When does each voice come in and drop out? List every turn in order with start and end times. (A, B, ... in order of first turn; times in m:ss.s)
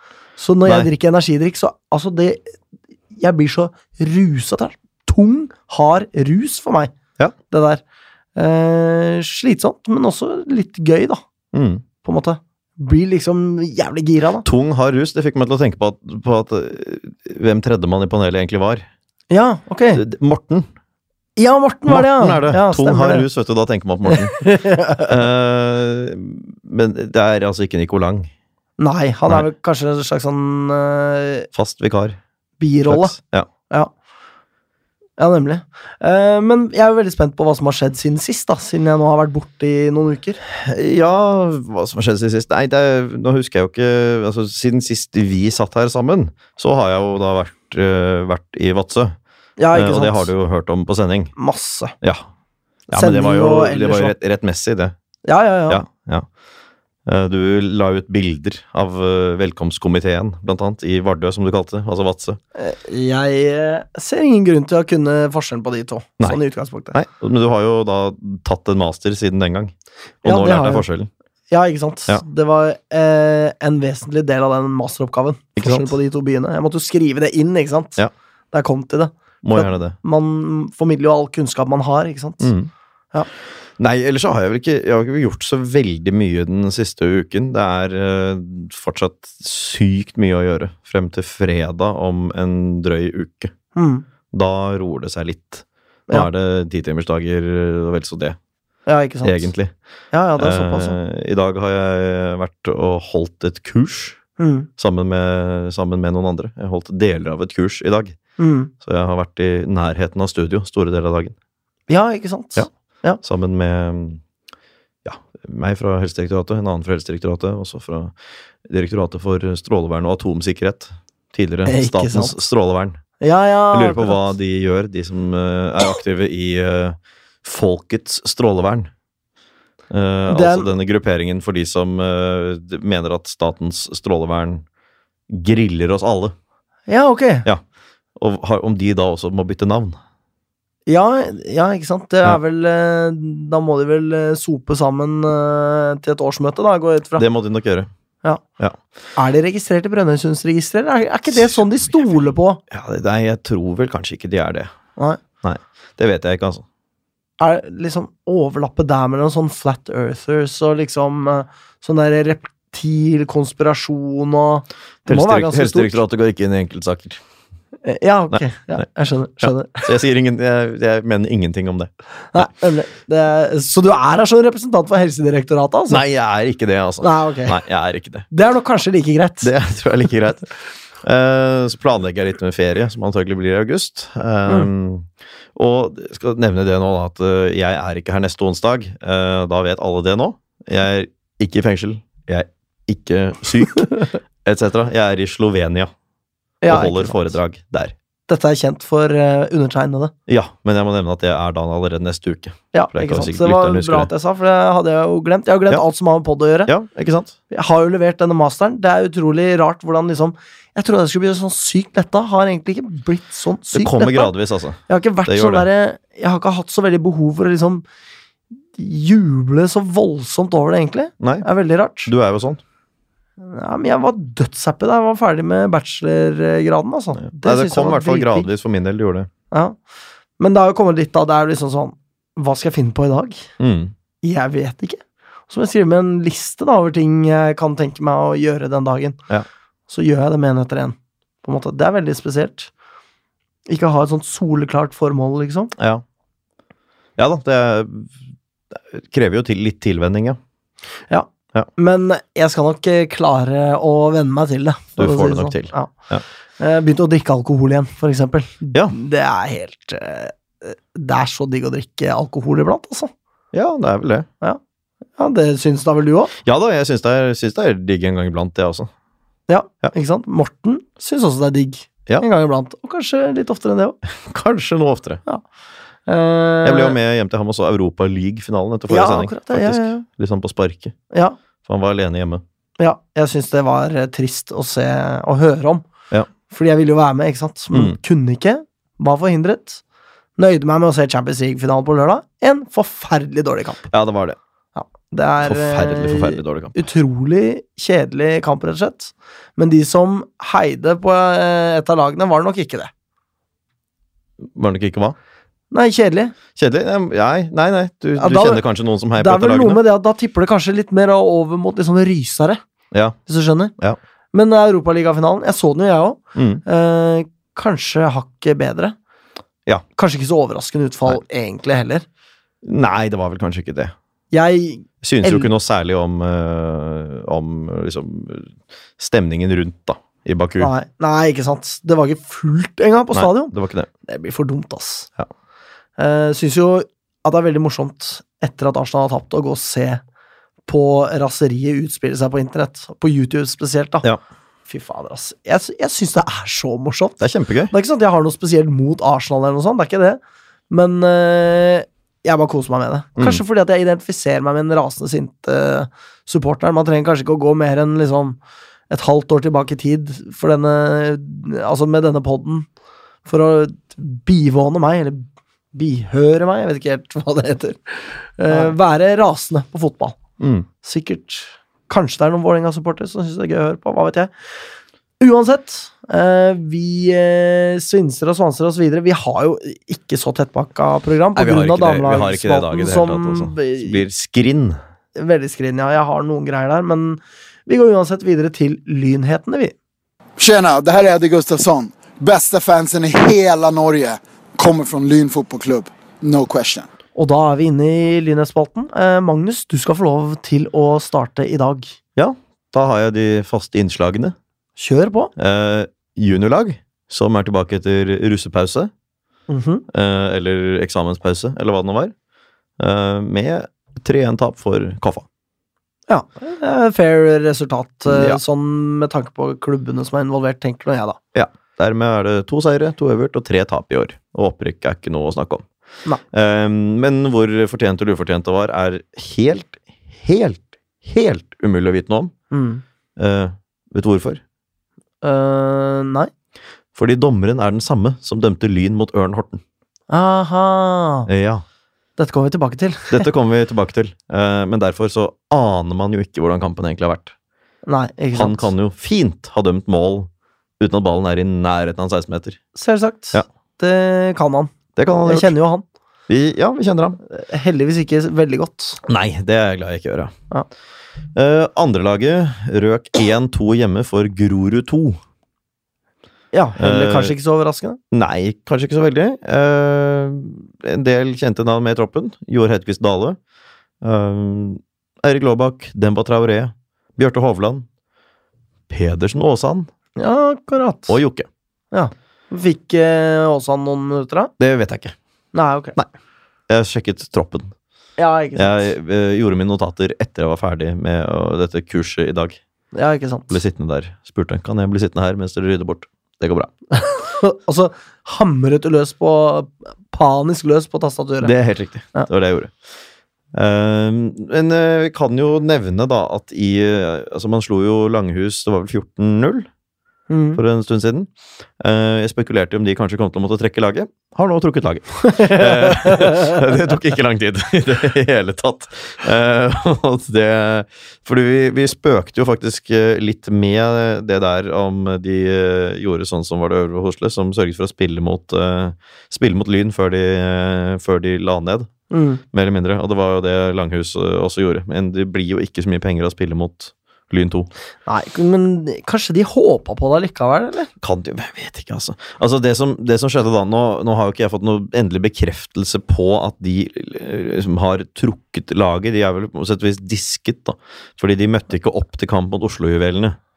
0:00.4-0:02.5 A
0:03.1-0:06.9 A
0:07.5-0:07.8 A
0:08.4-0:11.2 A
0:11.5-0:11.8 B
0:12.0-0:14.4 A
0:14.4-0:18.8 B
0:19.3-0:20.0 A
0:19.9-0:20.7 B
0:21.4-0:23.2 A
0:21.9-0:24.5 B
0:24.1-0:25.1 A
0:25.0-0:28.3 B
0:28.8-0:31.5 A
0:31.5-0:32.2 B
0:32.6-0:33.2 A
0:32.8-0:33.5 B
0:35.2-0:40.4 A
0:40.5-0:49.2 B
0:49.6-0:50.3 A
0:49.7-0:51.3 B
0:51.4-0:51.9 A
0:52.9-0:54.9 B
0:52.9-0:54.1 A
0:55.2-0:55.8 A
0:55.7-0:56.3 B
0:57.0-1:02.4 B
1:02.6-1:07.0 A
1:06.9-1:11.1 B
1:10.2-1:10.9 A
1:11.5-1:18.0 A
1:15.6-1:15.9 B
1:18.5-1:22.5 A
1:19.4-1:20.0 B
1:22.4-1:22.7 B
1:23.8-1:33.5 B
1:33.7-1:34.0 A
1:34.3-1:38.4 B
1:38.8-1:39.5 A
1:39.2-1:39.7 B
1:40.1-1:41.0 A
1:40.4-1:44.2 B
1:44.4-1:44.7 A
1:44.8-1:48.2 B
1:48.4-1:48.7 A
1:48.8-1:51.3 B
1:51.9-1:53.2 A
1:53.2-1:54.2 B
1:55.0-2:03.0 B
2:01.6-2:02.4 A
2:03.2-2:04.3 A
2:03.7-2:08.9 B
2:09.9-2:14.6 B
2:10.3-2:10.7 A
2:15.3-2:16.3 B
2:16.9-2:17.4 A
2:18.2-2:20.0 B
2:20.9-2:27.2 A
2:27.2-2:27.9 B
2:29.2-2:32.6 A
2:31.3-2:34.7 B
2:35.4-2:36.6 B
2:37.4-2:46.0 A
2:45.0-2:47.2 B
2:47.8-2:50.0 A
2:48.3-2:48.8 B
2:49.4-2:52.5 B
2:52.3-2:56.0 A
2:55.9-2:58.3 B
2:57.0-2:57.6 A
2:58.3-2:59.5 A
2:59.4-3:00.5 B
3:01.0-3:15.9 B
3:16.6-3:17.3 A
3:16.7-3:17.9 B
3:18.3-3:20.1 A
3:20.3-3:24.1 B
3:22.7-3:26.7 A
3:26.7-3:27.3 B
3:27.5-3:34.3 A
3:33.7-3:35.6 B
3:34.9-3:37.8 A
3:38.8-3:42.1 A
3:41.2-3:41.4 B
3:42.0-3:42.6 B
3:43.4-3:48.5 A
3:47.2-3:49.3 B
3:49.5-3:49.8 A
3:50.4-3:53.4 A
3:53.6-3:53.9 B
3:54.2-3:59.2 A
3:59.9-4:02.7 A
4:03.7-4:05.7 A
4:05.8-4:06.0 B
4:07.2-4:08.2 B
4:08.7-4:10.4 B
4:11.1-4:15.9 A
4:15.0-4:16.2 B
4:16.6-4:23.1 A
4:23.5-4:24.3 B
4:25.2-4:26.3 A
4:26.4-4:28.9 B
4:29.5-4:34.0 A
4:34.2-4:35.2 B
4:36.0-4:37.0 A
4:36.6-4:40.9 B
4:38.9-4:40.0 A
4:41.1-4:41.4 A
4:41.6-4:42.4 B
4:42.8-4:45.9 A
4:46.5-4:49.8 A
4:47.7-4:48.0 B
4:50.4-4:53.9 A
4:53.9-4:54.4 B
4:54.7-5:02.9 A
4:55.4-4:56.8 B
5:04.4-5:05.2 B
5:05.7-5:06.3 A
5:06.6-5:09.8 B
5:08.2-5:08.6 A
5:09.1-5:12.6 A
5:12.9-5:13.2 B
5:13.3-5:13.7 A
5:14.3-5:18.9 A
5:16.3-5:16.6 B
5:20.0-5:22.0 A
5:22.6-5:23.9 B
5:24.3-5:25.5 A
5:25.0-5:30.7 B
5:30.6-5:33.5 A
5:33.1-5:33.9 B
5:34.0-5:35.1 A
5:36.0-5:40.0 A
5:40.7-5:44.0 A
5:44.7-5:47.2 A
5:47.2-5:47.7 B
5:47.7-5:58.4 A
5:53.2-5:53.4 B
5:58.9-6:02.7 A
6:03.2-6:10.2 A
6:10.4-6:10.7 B
6:10.8-6:14.3 A
6:15.2-6:24.0 A
6:21.4-6:24.8 B
6:25.2-6:29.7 A
6:30.4-6:36.9 C
6:37.2-6:41.9 A
6:42.2-6:44.3 B
6:44.8-6:45.3 A
6:45.4-6:48.9 B
6:49.5-6:49.8 A
6:49.9-6:52.1 B
6:52.8-6:55.2 B
6:56.1-7:01.2 A
6:58.1-6:58.4 B
7:01.3-7:05.7 B
7:06.3-7:12.3 B
7:12.5-7:12.8 A
7:13.2-7:14.4 B
7:15.2-7:16.3 A
7:16.9-7:19.6 B
7:20.1-7:21.3 A
7:21.3-7:21.6 B
7:22.2-7:23.3 A
7:23.1-7:27.3 B
7:27.8-7:28.7 A
7:28.3-7:30.3 B
7:30.8-7:32.6 B
7:32.7-7:35.8 A
7:35.0-7:35.5 B
7:36.3-7:37.2 B
7:37.2-7:39.0 A
7:39.0-7:40.3 B
7:41.3-7:45.2 B
7:46.5-7:48.0 A
7:46.8-7:47.3 B
7:48.1-7:53.4 B
7:54.0-7:57.8 B
7:58.9-7:59.9 B
8:00.2-8:01.2 A
8:01.1-8:01.5 B
8:01.9-8:04.5 A
8:04.6-8:05.2 B
8:05.5-8:06.0 A
8:06.7-8:07.7 B
8:08.2-8:08.9 A
8:08.6-8:12.6 B
8:12.9-8:13.6 A
8:13.5-8:16.7 B
8:16.9-8:21.5 A
8:21.4-8:22.7 B
8:23.5-8:29.7 B
8:30.3-8:30.6 A
8:30.6-8:51.9 B
8:35.3-8:36.6 A
8:52.1-8:52.4 A
8:52.5-8:57.7 B
8:58.0-9:00.9 A
9:01.0-9:13.4 B